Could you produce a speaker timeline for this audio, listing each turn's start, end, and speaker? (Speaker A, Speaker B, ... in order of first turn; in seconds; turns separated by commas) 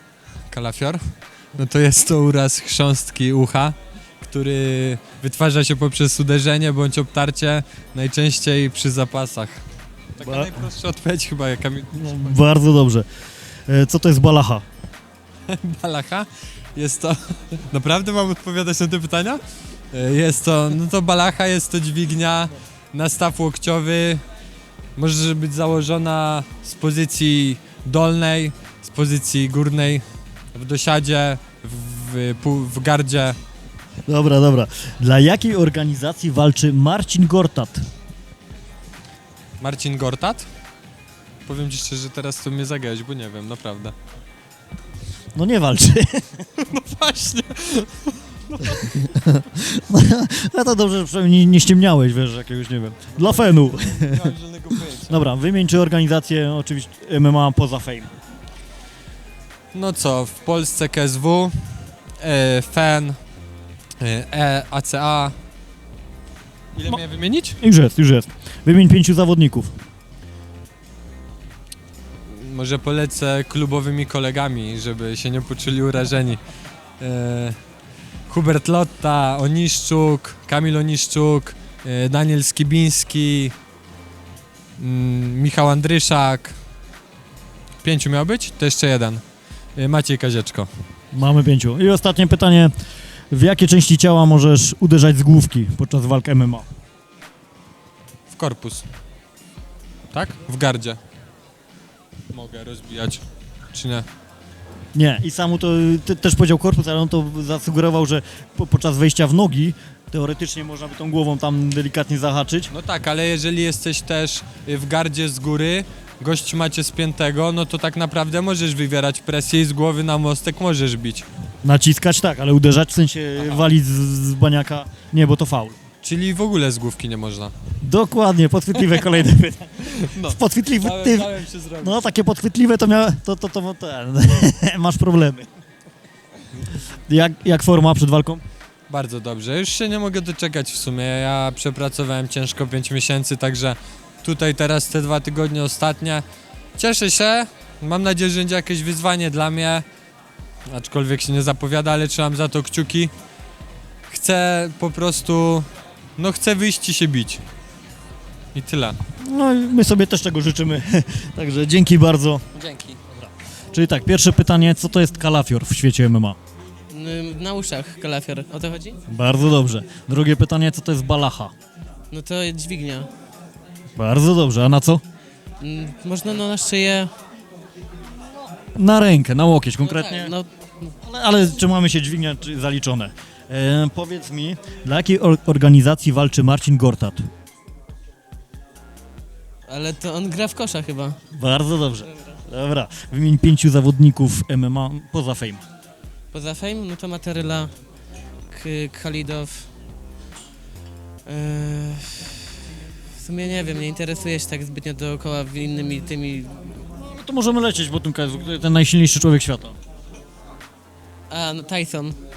Speaker A: 0.5-1.0, Speaker A: 1.5-9.6, Speaker A: 10.2-12.4, Speaker B: 10.2-10.6, Speaker B: 11.9-13.1, Speaker B: 13.7-14.6, Speaker A: 15.5-24.2, Speaker A: 24.9-33.4, Speaker B: 34.1-37.9, Speaker A: 39.6-40.5, Speaker A: 41.5-43.9, Speaker B: 45.3-46.4, Speaker A: 46.6-49.1, Speaker B: 48.7-54.3, Speaker A: 53.2-55.1, Speaker B: 55.0-58.1, Speaker A: 59.7-63.2, Speaker A: 64.0-65.3, Speaker A: 66.7-67.6, Speaker B: 67.6-69.7, Speaker A: 72.3-76.4, Speaker A: 77.0-77.6, Speaker A: 78.3-83.5, Speaker A: 84.8-86.6, Speaker A: 87.8-89.2, Speaker A: 89.8-90.7, Speaker B: 91.1-92.7, Speaker B: 93.3-96.7, Speaker A: 98.3-98.8, Speaker A: 100.1-101.0, Speaker A: 102.3-104.0, Speaker B: 104.9-112.7, Speaker A: 112.7-121.3, Speaker B: 121.6-125.8, Speaker A: 126.0-127.5, Speaker B: 127.8-135.5, Speaker A: 129.9-132.1, Speaker B: 136.8-138.4, Speaker A: 138.9-146.2, Speaker A: 146.8-149.8, Speaker A: 150.7-153.1, Speaker A: 154.1-157.4, Speaker A: 158.5-159.0, Speaker B: 159.2-162.4, Speaker C: 162.5-163.0, Speaker B: 163.2-166.4, Speaker C: 166.9-169.0, Speaker B: 169.1-171.5, Speaker C: 172.1-173.1, Speaker B: 174.0-175.0, Speaker C: 175.6-177.1, Speaker B: 178.6-180.3, Speaker C: 179.8-180.9, Speaker B: 181.0-187.3, Speaker C: 189.7-191.2, Speaker B: 191.3-195.6, Speaker C: 196.3-197.7, Speaker C: 198.5-199.7, Speaker C: 201.3-202.5, Speaker C: 203.2-206.8, Speaker B: 206.9-209.8, Speaker C: 211.3-212.2